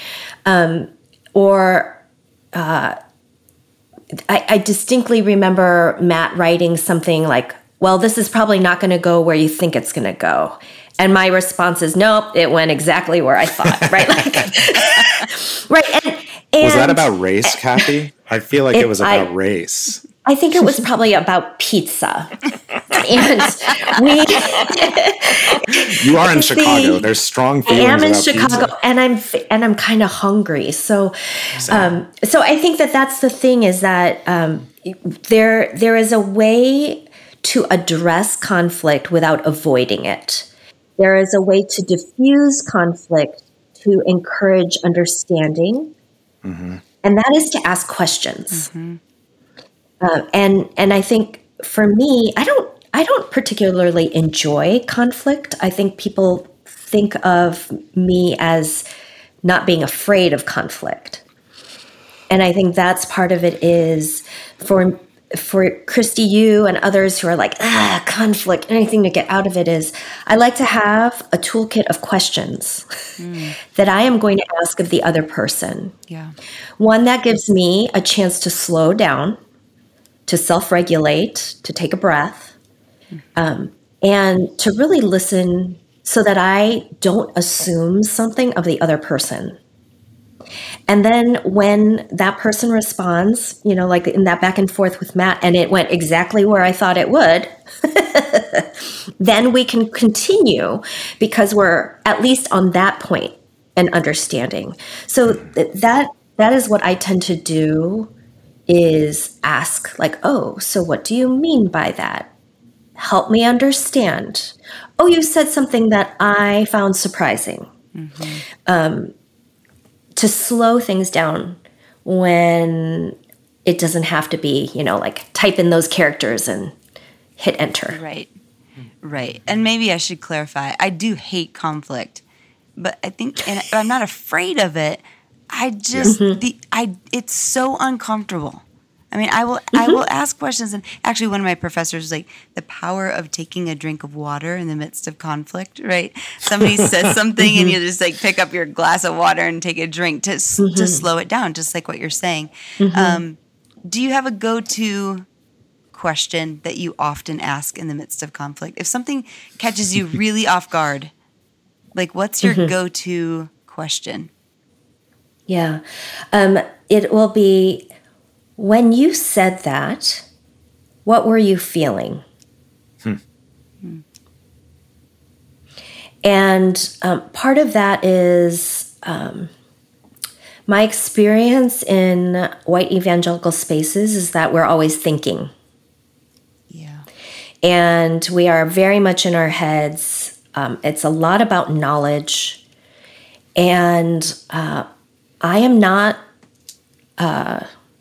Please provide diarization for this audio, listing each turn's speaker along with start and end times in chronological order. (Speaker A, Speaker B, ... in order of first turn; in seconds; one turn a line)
Speaker A: 0.5-2.0
Speaker A: 2.5-3.0
Speaker A: 4.3-17.5
Speaker B: 13.8-14.3
Speaker B: 16.6-20.0
Speaker A: 18.7-19.3
Speaker A: 20.2-27.1
Speaker B: 25.8-28.7
Speaker A: 27.6-45.9
Speaker B: 31.6-32.0
Speaker B: 46.4-46.8
Speaker A: 47.0-48.7
Speaker C: 48.5-49.0
Speaker A: 50.0-58.8
Speaker A: 59.4-61.2
Speaker A: 62.3-72.8
Speaker C: 73.2-73.6
Speaker A: 73.7-75.9
Speaker C: 76.1-76.3
Speaker A: 76.8-79.4
Speaker A: 80.3-82.5
Speaker A: 83.3-89.6
Speaker A: 90.9-108.1
Speaker A: 108.7-112.3
Speaker A: 113.0-117.7
Speaker C: 117.9-118.4
Speaker A: 118.6-119.1
Speaker A: 120.2-126.7
Speaker A: 127.4-128.0
Speaker C: 127.9-128.3
Speaker C: 129.0-132.2
Speaker C: 132.8-155.3
Speaker A: 136.0-136.4
Speaker A: 139.7-140.0
Speaker A: 147.4-147.7
Speaker A: 150.6-151.0
Speaker A: 152.8-153.2
Speaker C: 155.9-161.1
Speaker C: 161.9-164.3
Speaker A: 162.4-162.7
Speaker A: 165.5-167.9
Speaker A: 168.6-170.2
Speaker A: 171.0-172.2
Speaker A: 176.2-179.5
Speaker A: 180.7-185.5
Speaker C: 186.7-187.1
Speaker A: 187.6-192.6
Speaker A: 193.6-194.8
Speaker A: 195.4-196.2
Speaker A: 197.2-197.7